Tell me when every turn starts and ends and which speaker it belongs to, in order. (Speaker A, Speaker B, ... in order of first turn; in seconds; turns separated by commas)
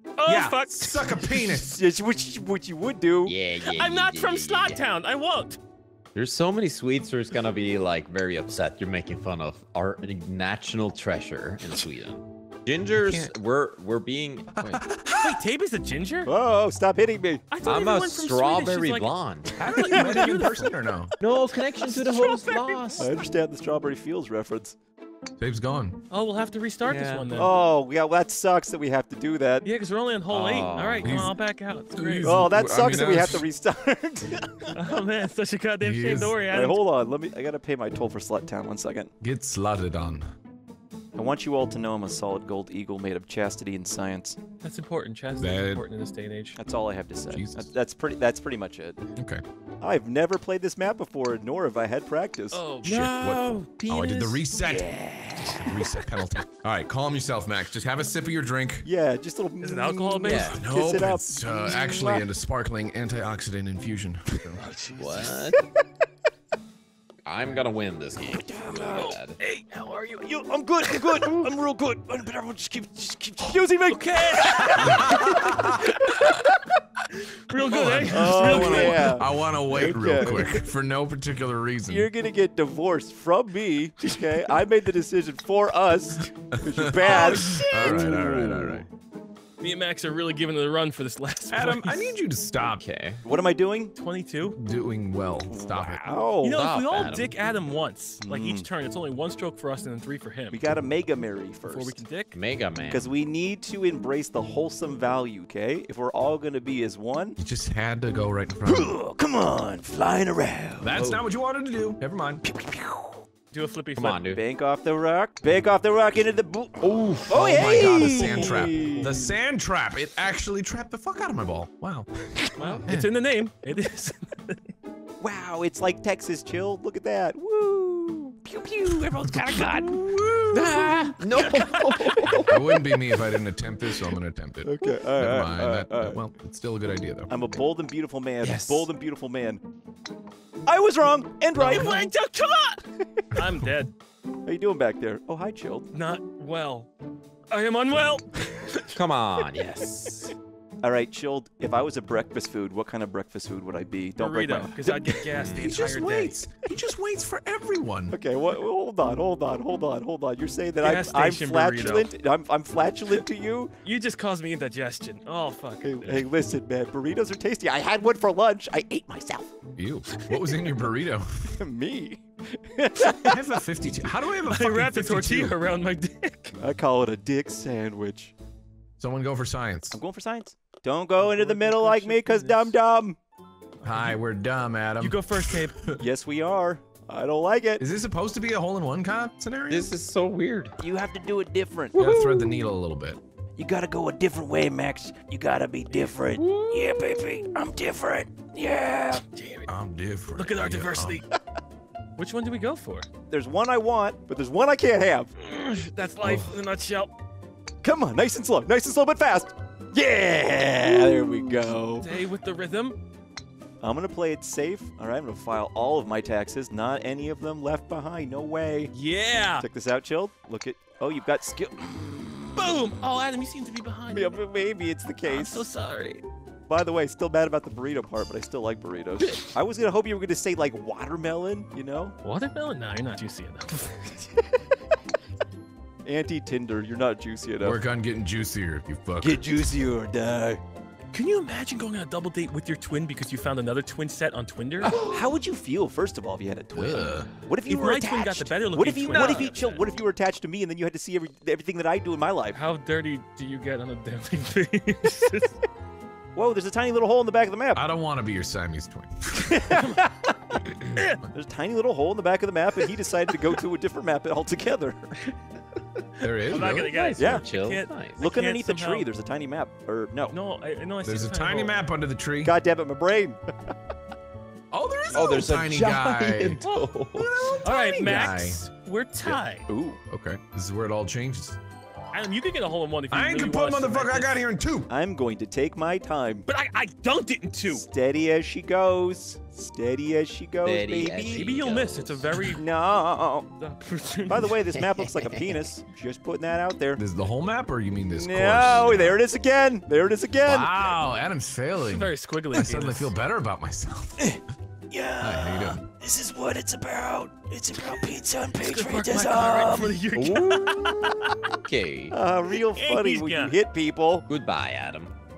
Speaker A: 0.2-1.2, Speaker B: 0.2-1.8, Speaker C: 1.2-3.4, Speaker D: 3.2-4.9, Speaker A: 3.5-5.6, Speaker D: 6.1-14.8, Speaker B: 13.0-13.3, Speaker B: 14.6-15.4, Speaker A: 15.2-16.3, Speaker C: 16.2-17.4, Speaker A: 17.5-20.7, Speaker D: 17.6-19.5, Speaker B: 19.6-21.1, Speaker C: 19.9-20.6, Speaker D: 21.2-23.1, Speaker A: 21.9-23.1, Speaker C: 22.9-24.8, Speaker B: 25.4-26.0, Speaker A: 26.1-27.5, Speaker D: 26.9-27.5, Speaker C: 27.3-29.7, Speaker A: 29.6-32.3, Speaker D: 30.3-31.2, Speaker B: 31.0-31.4, Speaker B: 31.9-33.4, Speaker C: 32.2-34.8, Speaker A: 34.7-36.8, Speaker B: 35.8-36.4, Speaker C: 36.5-39.1, Speaker B: 39.2-40.2, Speaker C: 41.1-44.4, Speaker A: 44.6-46.6, Speaker B: 45.4-45.8, Speaker C: 46.5-49.0, Speaker B: 47.3-47.6, Speaker B: 49.2-49.4, Speaker C: 49.8-52.6, Speaker A: 52.5-53.8, Speaker B: 52.8-58.9, Speaker D: 52.8-54.4, Speaker C: 54.6-55.9, Speaker C: 58.8-62.3, Speaker A: 59.6-60.6, Speaker D: 60.2-60.6, Speaker B: 60.5-64.6, Speaker A: 64.6-65.5, Speaker D: 65.0-65.6, Speaker D: 67.2-69.4, Speaker C: 68.3-76.7, Speaker A: 71.0-71.3, Speaker A: 73.4-76.3, Speaker B: 74.8-75.6, Speaker A: 77.5-79.2, Speaker B: 77.6-82.1, Speaker C: 78.1-80.6, Speaker C: 81.9-88.8, Speaker B: 86.5-88.8, Speaker A: 87.0-88.1, Speaker A: 89.6-92.2, Speaker B: 91.5-92.8, Speaker D: 92.8-93.2, Speaker C: 93.2-93.9, Speaker A: 93.9-94.6, Speaker B: 94.5-96.1, Speaker C: 95.5-96.7, Speaker A: 96.4-100.7, Speaker D: 96.5-97.3, Speaker C: 98.2-98.7, Speaker C: 100.5-102.0, Speaker A: 101.6-102.3, Speaker D: 102.3-103.1, Speaker C: 102.9-107.4, Speaker B: 107.4-108.9, Speaker C: 108.6-111.2, Speaker B: 110.8-112.4, Speaker C: 112.4-113.2, Speaker A: 113.5-114.2, Speaker D: 114.0-114.4, Speaker C: 114.3-119.2, Speaker D: 116.8-118.2, Speaker B: 117.3-122.1, Speaker A: 118.1-118.7, Speaker A: 122.6-124.6, Speaker C: 125.2-130.6, Speaker B: 128.9-131.1, Speaker D: 130.5-132.8, Speaker C: 131.5-132.3, Speaker A: 131.9-132.2, Speaker B: 132.5-137.3, Speaker C: 134.6-136.2, Speaker C: 137.3-139.6, Speaker D: 138.4-138.9, Speaker C: 140.7-142.1, Speaker A: 141.6-143.9, Speaker B: 143.3-143.7, Speaker C: 144.4-145.9, Speaker A: 145.9-146.9, Speaker A: 147.5-148.9, Speaker D: 148.9-150.3, Speaker C: 150.8-155.2, Speaker A: 154.2-156.4, Speaker D: 155.3-155.8, Speaker B: 155.5-158.2, Speaker C: 158.1-163.7, Speaker A: 160.8-162.1, Speaker A: 163.8-166.3, Speaker C: 165.8-169.5, Speaker B: 169.8-171.6, Speaker C: 171.6-173.6, Speaker B: 173.2-175.6, Speaker A: 174.3-176.6, Speaker C: 176.6-178.3, Speaker B: 179.0-180.0, Speaker C: 179.9-183.2, Speaker A: 181.2-182.8, Speaker A: 183.8-184.2, Speaker B: 183.8-186.0, Speaker A: 185.0-185.8, Speaker C: 186.0-187.8, Speaker B: 187.8-189.9, Speaker D: 189.7-190.8, Speaker C: 190.8-192.6, Speaker B: 191.9-193.2, Speaker C: 193.6-199.2, Speaker A: 195.9-196.2, Speaker D: 196.4-196.8, Speaker A: 199.3-199.7, Speaker B: 199.7-201.2, Speaker A: 200.3-201.2, Speaker A: 202.2-203.1, Speaker C: 203.3-205.3, Speaker A: 205.4-207.2, Speaker B: 206.2-206.5, Speaker C: 207.8-212.1, Speaker A: 210.8-213.0, Speaker C: 213.8-218.9, Speaker A: 218.9-219.7, Speaker C: 219.6-222.8, Speaker A: 222.6-224.4, Speaker C: 224.1-225.7, Speaker A: 225.2-226.2, Speaker C: 226.7-232.2, Speaker A: 232.2-234.3, Speaker C: 236.0-237.8, Speaker B: 237.6-239.4, Speaker C: 239.2-240.6, Speaker A: 241.1-245.0, Speaker C: 244.8-252.6, Speaker B: 246.7-247.3, Speaker A: 247.7-249.8, Speaker A: 252.5-255.6, Speaker C: 256.3-257.9, Speaker B: 257.7-259.7, Speaker C: 259.4-260.6, Speaker A: 259.7-260.1, Speaker B: 260.7-261.0, Speaker C: 261.3-265.3, Speaker B: 266.2-267.0, Speaker A: 266.4-269.1, Speaker D: 266.9-268.2, Speaker C: 267.1-267.4, Speaker C: 268.2-270.3, Speaker A: 270.3-271.7, Speaker B: 271.0-272.6, Speaker C: 272.4-273.7, Speaker B: 274.7-278.6, Speaker D: 275.1-277.6, Speaker C: 275.1-275.4, Speaker A: 277.6-279.7, Speaker C: 279.7-280.0, Speaker B: 280.1-281.6, Speaker A: 282.1-284.4, Speaker B: 283.1-284.9, Speaker C: 284.9-286.5, Speaker A: 286.5-287.9, Speaker C: 287.7-291.6, Speaker D: 290.6-292.3, Speaker A: 291.3-292.6, Speaker C: 292.5-293.5, Speaker A: 293.6-294.6, Speaker C: 294.3-297.0, Speaker D: 294.7-295.6, Speaker B: 297.0-299.2, Speaker C: 298.1-300.7, Speaker B: 300.4-304.3, Speaker A: 301.8-303.1, Speaker C: 304.2-311.3, Speaker B: 305.2-305.8, Speaker A: 308.6-311.3, Speaker D: 311.6-312.2, Speaker C: 312.1-314.3, Speaker A: 312.5-313.6, Speaker D: 314.3-315.1